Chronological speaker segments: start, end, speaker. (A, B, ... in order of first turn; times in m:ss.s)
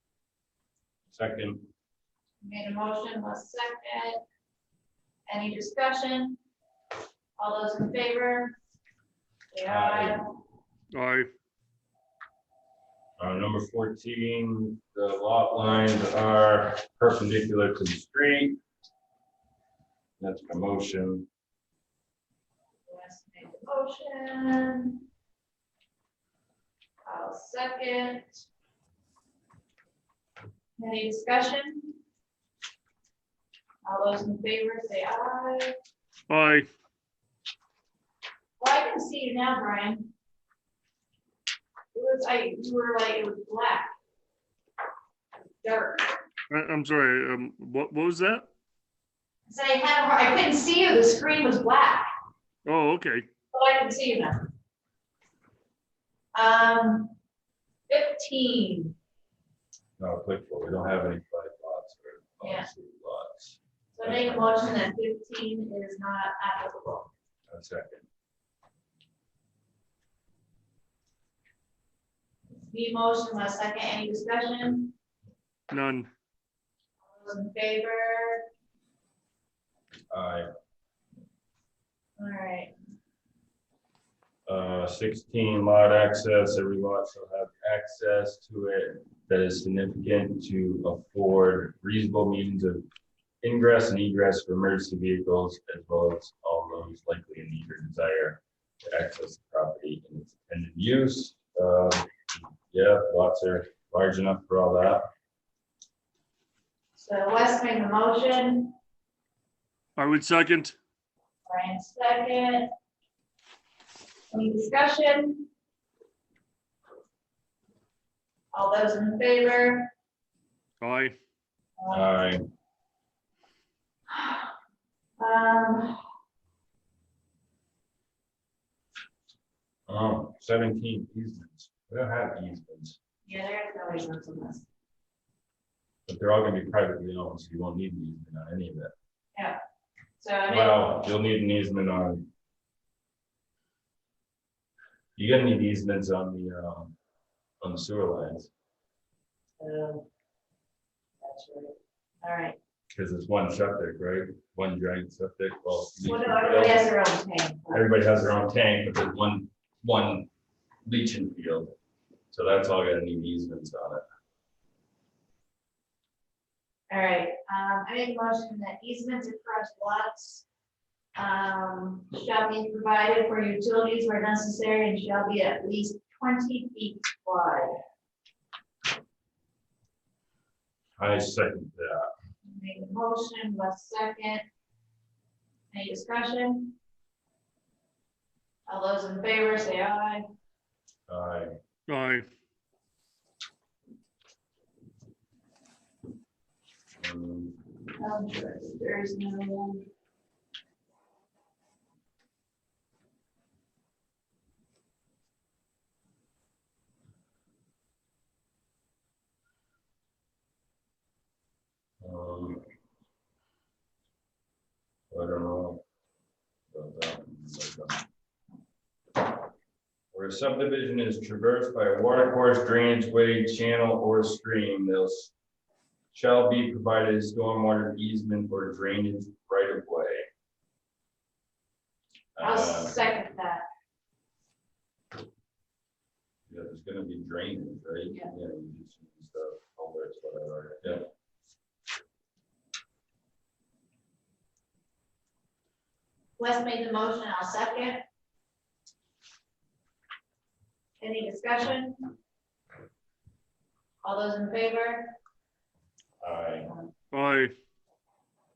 0:01.1-0:01.7 A
0:02.4-0:04.2 B
0:05.3-0:06.4 B
0:07.4-0:08.6 B
0:09.5-0:10.3 B
0:09.7-0:10.2 A
0:10.9-0:11.3 C
0:13.2-0:18.6 A
0:20.2-0:21.3 A
0:22.9-0:25.0 B
0:27.1-0:28.4 B
0:30.8-0:32.0 B
0:33.8-0:35.7 B
0:36.3-0:36.7 C
0:38.6-0:40.1 B
0:41.9-0:43.9 B
0:45.6-0:46.2 B
0:46.5-0:48.5 C
0:49.5-0:52.1 B
0:52.6-0:53.2 C
0:53.5-0:54.5 B
0:56.3-0:57.1 B
0:57.9-0:59.0 B
1:00.0-1:04.6 A
1:02.4-1:02.7 B
1:03.9-1:07.1 B
1:07.5-1:08.0 A
1:12.7-1:14.9 B
1:15.7-1:16.1 C
1:17.1-1:18.5 B
1:20.1-1:20.5 A
1:22.2-1:22.7 B
1:24.5-1:32.8 A
1:33.4-1:45.1 A
1:47.0-1:48.7 B
1:50.0-1:50.8 C
1:51.5-1:52.7 B
1:54.3-1:55.5 B
1:58.5-1:59.9 B
2:00.8-2:01.2 C
2:01.8-2:02.3 B
2:01.9-2:02.5 A
2:04.1-2:04.5 B
2:05.2-2:06.0 B
2:09.9-2:13.0 A
2:13.3-2:14.7 B
2:16.1-2:18.9 A
2:20.2-2:20.9 B
2:20.5-2:22.3 A
2:25.2-2:26.9 A
2:27.6-2:28.5 A
2:29.6-2:30.0 B
2:31.2-2:32.6 B
2:32.9-2:36.9 A
2:36.0-2:38.0 B
2:37.7-2:40.3 A
2:40.8-2:41.7 A
2:42.3-2:44.0 A
2:46.9-2:50.4 B
2:51.2-2:57.8 B
3:01.0-3:02.1 A
3:02.5-3:04.4 B
3:05.7-3:06.8 B
3:08.7-3:10.2 B
3:11.1-3:11.6 A
3:11.9-3:12.3 C
3:17.0-3:17.6 A
3:18.0-3:19.9 B
3:32.0-3:32.6 A
3:35.1-3:35.8 A
3:36.7-3:38.0 A
3:40.1-3:45.3 A
3:46.1-3:50.3 A
3:52.4-3:53.0 A
3:52.4-3:53.6 B
3:56.5-4:01.1 A
4:06.4-4:08.0 B
4:11.0-4:12.1 B
4:14.0-4:15.1 B
4:16.2-4:16.7 A
4:17.1-4:17.5 C